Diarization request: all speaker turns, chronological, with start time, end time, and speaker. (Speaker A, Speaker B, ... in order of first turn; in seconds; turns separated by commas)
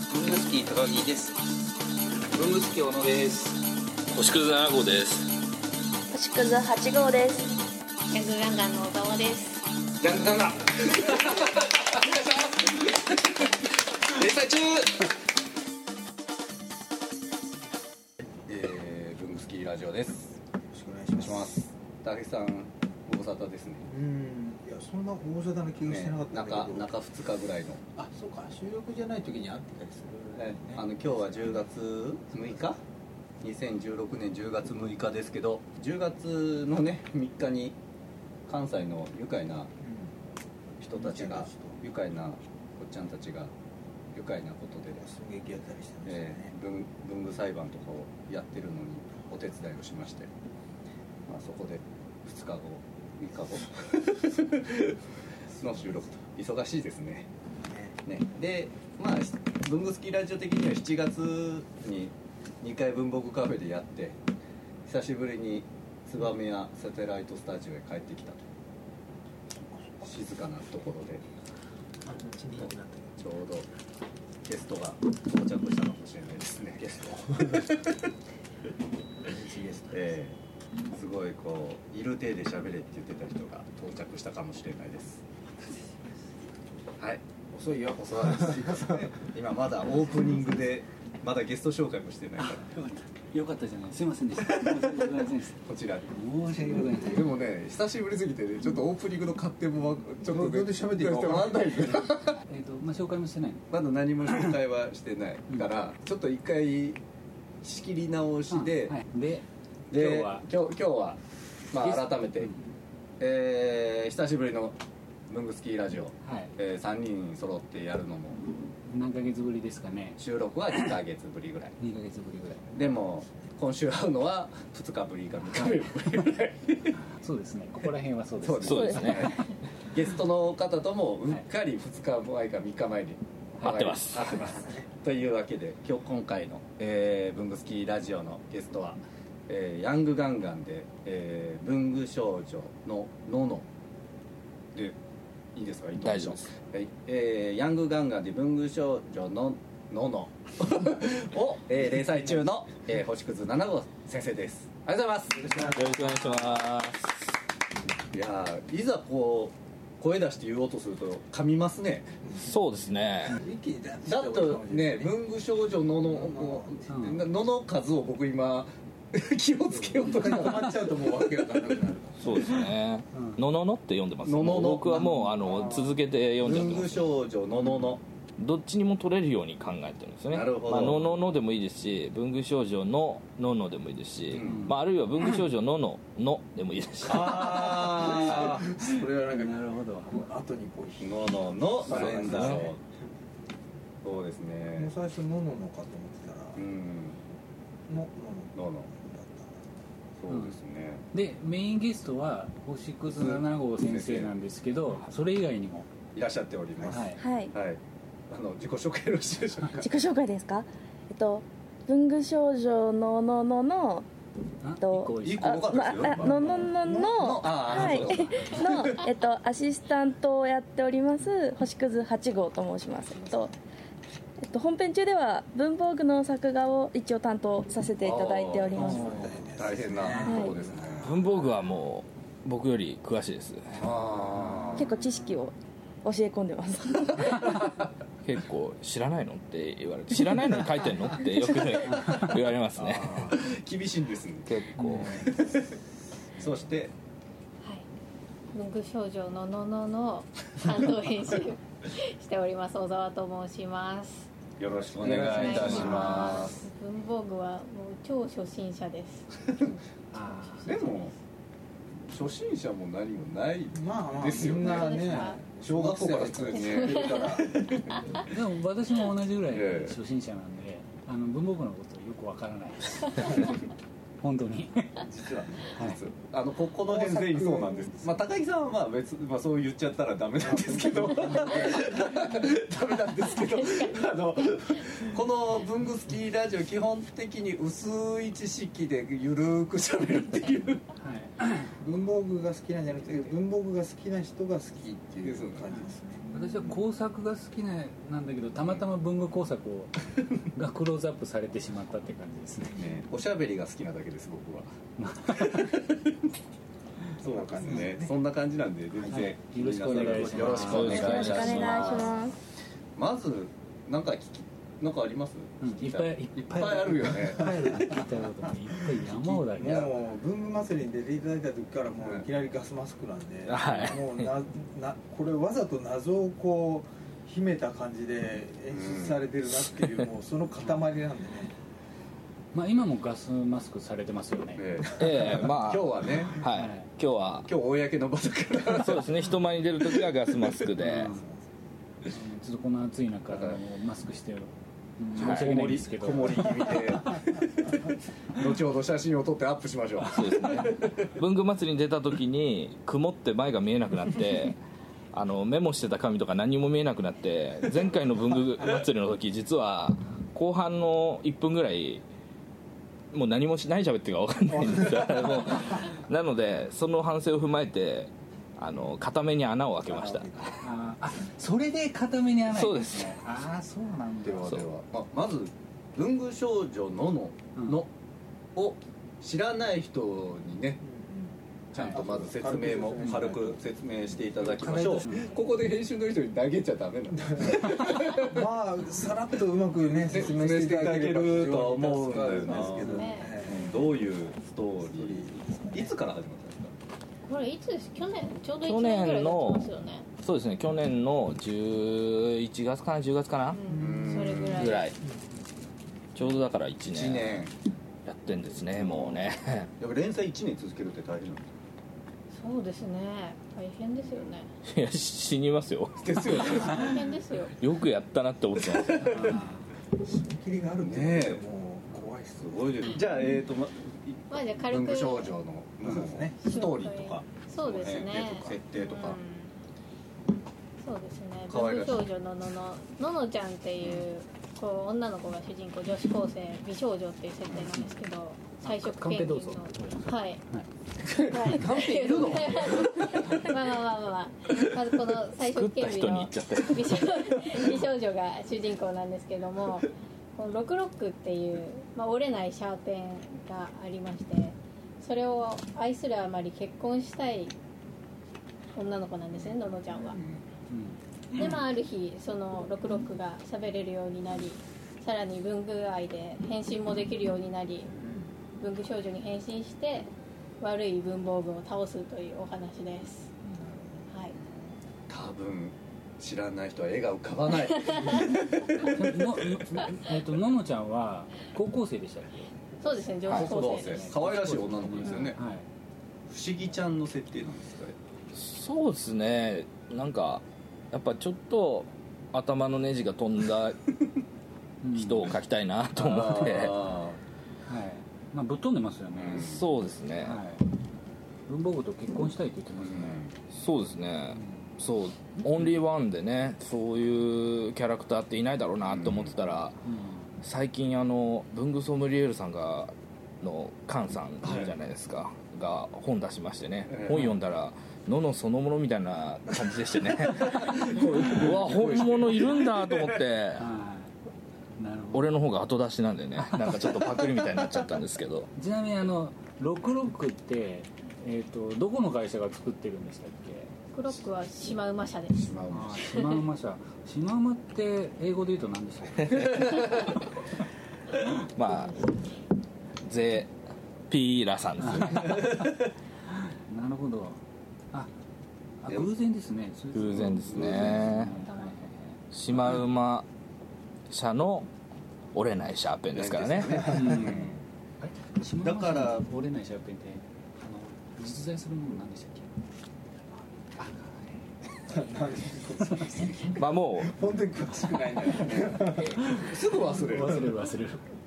Speaker A: 0.1-1.3, Speaker B: 0.4-1.3, Speaker A: 2.3-3.6, Speaker C: 4.1-5.3, Speaker D: 6.1-7.6, Speaker E: 8.1-9.6, Speaker B: 10.0-15.1, Speaker B: 18.5-20.4, Speaker F: 20.7-21.6, Speaker B: 21.2-23.9, Speaker F: 23.9-26.9, Speaker B: 25.9-27.8, Speaker F: 28.0-31.5, Speaker B: 30.4-32.8, Speaker B: 33.4-37.8, Speaker B: 38.5-39.7, Speaker F: 39.8-40.1, Speaker B: 40.8-43.5, Speaker F: 40.9-41.8, Speaker B: 44.1-45.1, Speaker F: 45.0-46.5, Speaker B: 46.1-50.3, Speaker B: 51.3-55.0, Speaker B: 55.6-57.3, Speaker F: 57.6-57.9, Speaker B: 58.0-64.2, Speaker B: 64.8-68.5, Speaker B: 70.0-71.2, Speaker F: 72.0-73.1, Speaker B: 72.5-73.7, Speaker B: 74.4-78.0, Speaker F: 76.9-77.7, Speaker F: 79.2-80.1, Speaker B: 79.9-80.4, Speaker B: 80.9-85.2, Speaker B: 87.0-92.7, Speaker A: 92.4-95.6, Speaker B: 94.6-95.0, Speaker B: 95.6-102.4, Speaker A: 96.1-97.3, Speaker F: 100.2-102.0, Speaker A: 102.5-103.7, Speaker B: 103.7-107.0, Speaker B: 107.6-109.0, Speaker A: 108.5-110.5, Speaker B: 109.9-111.2, Speaker B: 111.7-112.5, Speaker A: 111.8-112.7, Speaker B: 113.2-114.8, Speaker B: 115.3-118.4, Speaker A: 116.2-116.5, Speaker A: 118.9-120.2, Speaker B: 120.2-121.8, Speaker A: 121.8-122.8, Speaker B: 122.7-126.9, Speaker A: 127.2-129.4, Speaker B: 128.4-143.7, Speaker C: 128.6-129.4, Speaker C: 133.6-134.4, Speaker B: 145.6-155.8, Speaker C: 146.0-146.5, Speaker C: 155.6-157.1, Speaker B: 158.1-162.3, Speaker C: 162.4-163.4, Speaker F: 163.3-165.3, Speaker B: 164.1-171.5, Speaker F: 166.0-166.8, Speaker A: 166.9-167.2, Speaker F: 169.7-172.6, Speaker C: 172.2-177.1, Speaker A: 173.1-173.4, Speaker B: 174.2-175.2, Speaker B: 176.4-178.0, Speaker C: 178.4-187.9, Speaker B: 180.3-181.2, Speaker B: 184.3-184.7, Speaker A: 184.4-184.8, Speaker B: 187.1-188.7, Speaker F: 187.8-192.8, Speaker A: 189.3-190.2, Speaker B: 191.0-192.8, Speaker C: 192.2-192.7, Speaker B: 194.0-194.9, Speaker F: 194.8-196.6, Speaker B: 196.6-197.2, Speaker F: 197.9-199.6, Speaker B: 198.6-198.9, Speaker B: 200.2-201.0, Speaker A: 200.3-200.6, Speaker A: 201.1-205.9, Speaker B: 203.1-204.3, Speaker B: 206.1-209.9, Speaker A: 206.9-207.2, Speaker D: 207.1-207.6, Speaker D: 209.8-214.1, Speaker A: 214.6-215.7, Speaker D: 214.8-223.5, Speaker B: 215.2-219.0, Speaker D: 224.4-229.3, Speaker B: 228.0-231.1, Speaker F: 228.8-230.6, Speaker D: 230.2-230.6, Speaker C: 231.0-233.9, Speaker B: 233.8-234.9, Speaker D: 234.7-237.6, Speaker C: 238.2-243.4, Speaker B: 242.8-245.7, Speaker C: 244.5-245.2, Speaker A: 244.8-245.2, Speaker B: 246.4-246.9, Speaker E: 248.5-254.3, Speaker B: 254.6-256.6, Speaker E: 255.0-259.3, Speaker F: 255.0-255.6, Speaker A: 255.0-256.4, Speaker B: 259.5-259.8, Speaker A: 260.1-261.0, Speaker B: 260.7-261.1, Speaker B: 262.1-265.1, Speaker F: 263.7-267.6, Speaker E: 264.4-265.4, Speaker B: 265.6-268.3, Speaker E: 266.5-267.4, Speaker A: 268.3-273.6, Speaker B: 269.5-270.0, Speaker A: 274.2-275.0, Speaker F: 275.0-275.8, Speaker B: 275.8-290.8, Speaker F: 276.8-278.1, Speaker F: 280.5-282.1, Speaker A: 291.0-291.7, Speaker F: 291.8-296.4, Speaker B: 295.2-295.8, Speaker A: 296.3-302.8, Speaker B: 302.8-304.7, Speaker A: 305.0-305.7, Speaker B: 305.3-306.2, Speaker F: 307.2-308.1, Speaker B: 307.2-312.3, Speaker A: 309.1-311.6, Speaker C: 310.4-311.8, Speaker D: 310.8-312.4, Speaker B: 313.0-318.1, Speaker A: 315.6-319.9, Speaker F: 319.3-331.5, Speaker B: 319.3-319.9, Speaker C: 323.5-324.3, Speaker B: 328.7-329.2, Speaker C: 329.6-330.1, Speaker A: 332.5-334.7, Speaker B: 334.6-336.4, Speaker C: 334.9-337.5, Speaker A: 336.5-336.9, Speaker B: 337.5-339.2, Speaker C: 338.7-341.1, Speaker B: 340.0-340.5, Speaker A: 340.8-341.2, Speaker A: 342.1-346.8, Speaker B: 343.3-343.6, Speaker B: 345.2-351.1, Speaker C: 345.2-345.6, Speaker C: 350.0-354.6, Speaker C: 355.1-362.0, Speaker C: 363.1-370.6, Speaker F: 364.8-365.4, Speaker F: 369.9-370.6, Speaker A: 370.6-374.6, Speaker C: 372.5-373.2, Speaker B: 374.2-377.9, Speaker B: 378.6-380.8, Speaker F: 380.8-383.6, Speaker B: 381.7-388.5, Speaker A: 381.8-382.0, Speaker A: 384.6-385.3, Speaker F: 384.6-385.1, Speaker F: 387.2-394.1, Speaker B: 390.1-396.7, Speaker E: 392.6-393.4, Speaker F: 394.8-396.0, Speaker E: 397.2-400.1, Speaker C: 398.6-403.6, Speaker E: 403.5-404.9, Speaker B: 403.7-404.8, Speaker F: 403.8-404.2, Speaker C: 404.5-405.0, Speaker C: 406.1-407.5, Speaker B: 406.9-407.5, Speaker C: 408.1-409.7, Speaker B: 408.8-409.2, Speaker B: 409.8-411.5, Speaker E: 412.3-414.5, Speaker C: 414.7-416.7, Speaker B: 416.0-417.1, Speaker E: 416.3-417.6, Speaker C: 417.6-419.2, Speaker B: 418.6-419.4, Speaker A: 419.0-419.7, Speaker F: 420.0-423.0, Speaker B: 420.8-421.4, Speaker B: 422.4-429.2, Speaker E: 424.3-425.4, Speaker F: 425.8-426.4, Speaker E: 426.4-429.5, Speaker E: 430.8-440.4, Speaker B: 431.5-432.1, Speaker B: 433.8-434.1, Speaker A: 438.6-440.7, Speaker B: 441.1-443.5, Speaker E: 441.2-457.5, Speaker C: 445.4-447.6, Speaker E: 458.8-460.2, Speaker B: 460.1-460.4, Speaker A: 460.7-461.5, Speaker E: 461.4-467.9, Speaker F: 468.0-468.3, Speaker E: 468.6-470.1, Speaker E: 470.6-473.3, Speaker F: 473.4-474.1, Speaker E: 474.1-474.4, Speaker B: 475.1-479.9, Speaker A: 478.8-482.5, Speaker E: 482.8-484.1, Speaker B: 483.3-485.4, Speaker A: 483.3-485.7, Speaker B: 486.3-488.0, Speaker C: 488.3-493.8, Speaker A: 494.8-495.3, Speaker C: 494.9-496.8, Speaker B: 496.0-497.2, Speaker A: 497.7-499.6, Speaker B: 499.1-499.6, Speaker C: 499.4-500.4, Speaker A: 500.2-500.7, Speaker A: 501.5-503.2, Speaker B: 502.8-503.4, Speaker C: 503.5-509.8, Speaker A: 504.3-504.7, Speaker B: 508.9-509.4, Speaker A: 509.9-510.3, Speaker C: 510.4-523.7, Speaker B: 514.4-514.8, Speaker B: 516.9-517.3, Speaker B: 520.4-523.2, Speaker A: 523.6-524.1, Speaker A: 524.8-525.4, Speaker C: 525.1-528.5, Speaker A: 528.6-533.7, Speaker E: 533.9-535.5, Speaker B: 535.3-536.2, Speaker A: 535.7-539.5, Speaker C: 539.2-540.2, Speaker C: 541.5-542.1, Speaker C: 543.0-543.5, Speaker C: 544.1-545.6, Speaker A: 544.8-545.7, Speaker A: 546.7-547.4, Speaker A: 548.8-552.2, Speaker C: 549.9-551.4, Speaker B: 550.5-551.3, Speaker C: 552.3-553.3, Speaker C: 554.1-554.7, Speaker C: 555.3-557.1, Speaker B: 556.1-557.5, Speaker A: 556.9-557.5, Speaker A: 558.0-562.5, Speaker B: 558.6-559.3, Speaker A: 563.8-564.4, Speaker F: 564.9-569.4, Speaker A: 565.9-566.3, Speaker C: 566.5-567.2, Speaker B: 568.4-570.6, Speaker A: 569.2-571.0